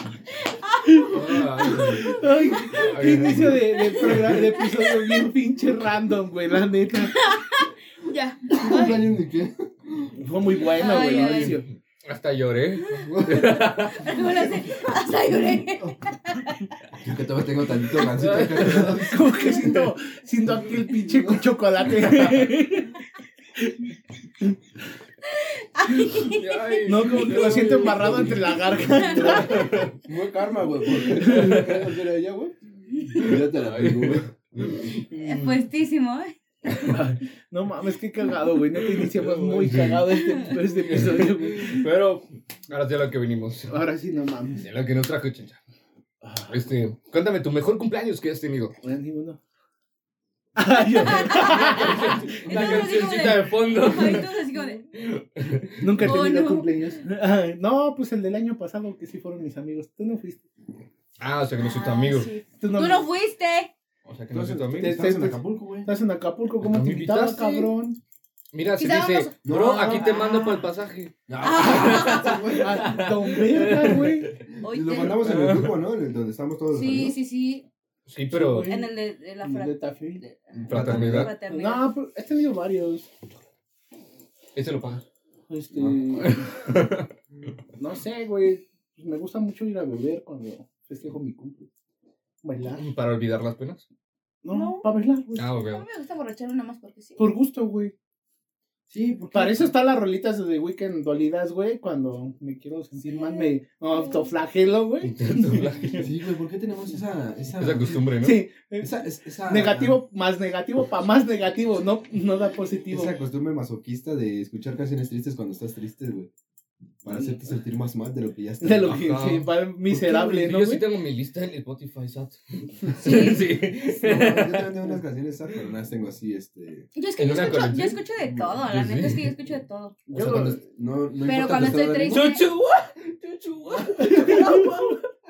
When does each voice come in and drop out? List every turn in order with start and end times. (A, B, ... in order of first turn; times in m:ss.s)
0:00.4-0:01.1 A
0:00.9-0:07.2 B
0:01.1-0:04.2 C
0:02.4-0:05.3 A
0:07.1-0:09.0 A
0:08.5-0:10.2 D
0:10.2-0:11.6 B
0:10.7-0:11.6 A
0:11.0-0:14.2 C
0:12.8-0:16.7 A
0:13.0-0:13.6 D
0:17.0-0:19.4 D
0:18.1-0:19.1 C
0:18.6-0:23.0 B
0:21.0-0:21.4 D
0:23.6-0:23.8 B
0:25.2-0:28.0 A
0:26.2-0:28.5 C
0:26.8-0:29.7 B
0:28.2-0:32.5 D
0:28.8-0:29.4 A
0:29.2-0:30.0 C
0:31.0-0:31.8 B
0:31.2-0:31.8 C
0:33.1-0:34.9 D
0:33.2-0:35.6 C
0:35.2-0:36.3 A
0:36.7-0:37.0 C
0:36.8-0:41.8 B
0:38.9-0:40.0 C
0:40.8-0:43.8 C
0:43.7-0:44.6 B
0:44.6-0:45.6 C
0:46.2-0:46.6 B
0:46.4-0:48.7 C
0:48.8-0:49.4 B
0:50.6-0:53.0 B
0:50.9-0:54.8 A
0:51.2-0:56.1 C
0:55.8-1:00.4 B
0:56.0-0:56.9 A
1:01.2-1:02.3 C
1:01.6-1:03.7 A
1:02.6-1:03.1 B
1:04.0-1:05.0 C
1:04.3-1:05.9 D
1:04.8-1:08.0 B
1:06.6-1:07.7 C
1:08.5-1:14.4 C
1:08.8-1:10.3 A
1:09.4-1:10.2 D
1:11.3-1:12.9 D
1:11.4-1:12.6 A
1:12.6-1:14.3 B
1:14.6-1:15.3 A
1:14.6-1:17.2 D
1:15.4-1:15.7 C
1:16.7-1:17.6 A
1:18.1-1:18.7 C
1:18.3-1:18.9 B
1:18.6-1:21.9 A
1:19.4-1:20.2 B
1:20.5-1:21.3 C
1:20.6-1:21.3 D
1:21.5-1:23.1 B
1:24.5-1:25.0 C
1:25.5-1:26.5 B
1:25.8-1:27.1 C
1:27.8-1:31.7 B
1:32.4-1:32.8 B
1:32.7-1:33.8 C
1:34.4-1:35.5 B
1:34.5-1:35.0 A
1:35.4-1:35.8 C
1:35.5-1:37.3 A
1:37.2-1:37.9 B
1:38.9-1:39.7 D
1:39.3-1:46.0 B
1:43.0-1:44.3 A
1:45.0-1:46.1 C
1:46.0-1:48.0 D
1:47.6-1:48.4 C
1:48.2-1:48.9 B
1:48.8-1:50.0 D
1:49.4-1:53.1 B
1:52.9-1:56.3 D
1:57.0-1:59.0 D
1:57.1-1:57.3 B
1:58.6-2:00.8 B
1:58.8-2:04.7 C
2:03.0-2:03.4 A
2:03.8-2:06.9 D
2:06.9-2:10.0 A
2:07.2-2:08.0 C
2:08.2-2:08.6 D
2:08.6-2:09.3 C
2:10.1-2:12.3 D
2:10.1-2:10.6 C
2:11.2-2:12.4 A
2:12.1-2:15.0 C
2:13.7-2:14.7 D
2:14.1-2:14.7 B